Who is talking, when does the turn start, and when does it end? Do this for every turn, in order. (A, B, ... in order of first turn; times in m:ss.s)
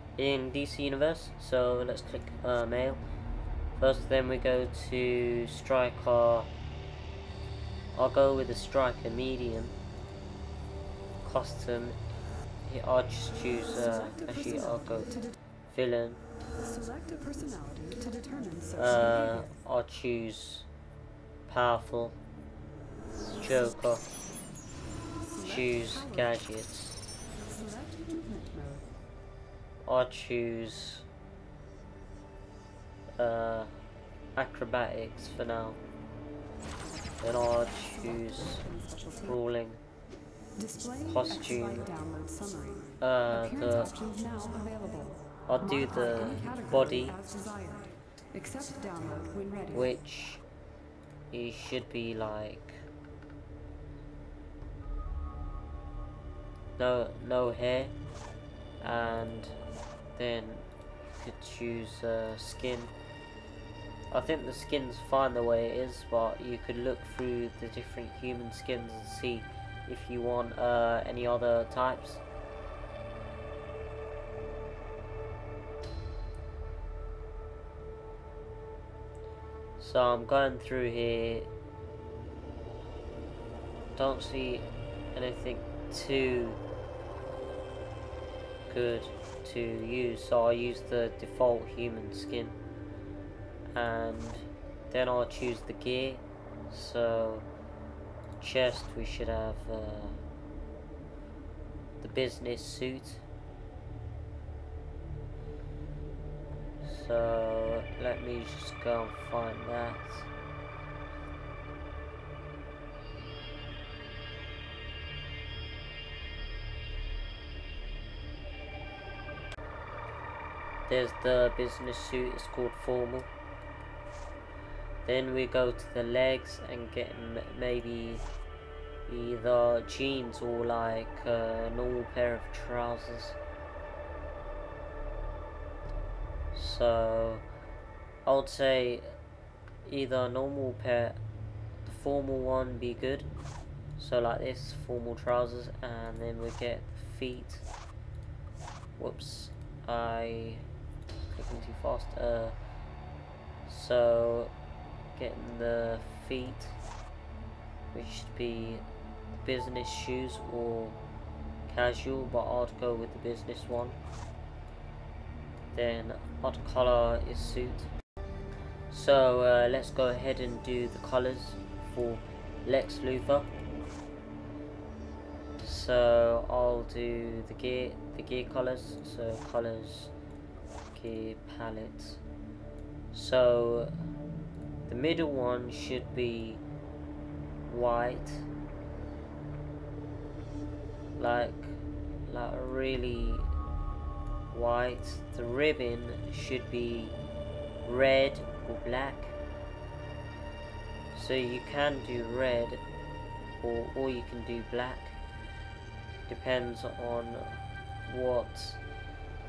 0:00.2-0:03.0 A
0:03.8-0:06.5 A
0:08.0-0:09.8 A
0:11.2-0:12.0 A
0:12.7-0:16.2 A
0:16.6-0:18.8 B
0:18.7-0:20.7 A
0:21.5-0:22.2 A
0:23.2-0:24.1 A
0:25.3-0:26.0 B
0:25.4-0:27.0 A
0:27.5-0:28.8 B
0:29.9-0:31.1 A
0:33.2-0:33.7 A
0:34.4-0:35.8 A
0:37.2-0:38.6 A
0:38.6-0:39.2 B
0:39.2-0:39.8 A
0:40.6-0:41.1 B
0:41.0-0:41.9 A
0:41.7-0:45.2 B
0:43.0-0:44.0 A
0:45.5-0:47.2 A
0:46.1-0:49.8 B
0:49.7-0:50.4 A
0:51.3-0:52.8 A
0:56.8-0:57.9 A
0:58.8-0:59.6 A
1:00.2-1:02.9 A
1:04.1-1:12.2 A
1:19.8-1:21.5 A
1:24.0-1:26.6 A
1:28.7-1:32.6 A
1:33.7-1:37.5 A
1:38.4-1:40.2 A
1:42.0-1:43.2 A
1:46.8-1:50.3 A
2:00.9-2:03.3 A
2:05.0-2:08.2 A
2:09.1-2:13.4 A
2:16.5-2:17.5 A
2:18.2-2:19.2 A
2:19.8-2:21.2 A
2:21.9-2:23.3 A
2:24.0-2:27.7 A
2:29.0-2:30.7 A
2:31.3-2:32.6 A
2:33.7-2:34.5 A
2:35.2-2:36.8 A
2:37.9-2:38.8 A
2:39.3-2:41.0 A
2:41.7-2:44.0 A
2:45.7-2:47.9 A
2:48.9-2:53.5 A
2:55.6-3:00.1 A
3:00.9-3:02.2 A
3:03.1-3:04.0 A
3:04.9-3:06.6 A
3:07.7-3:08.5 A
3:11.2-3:13.5 A
3:14.5-3:17.2 A
3:17.8-3:19.4 A
3:21.1-3:22.8 A
3:23.6-3:25.2 A
3:26.3-3:28.8 A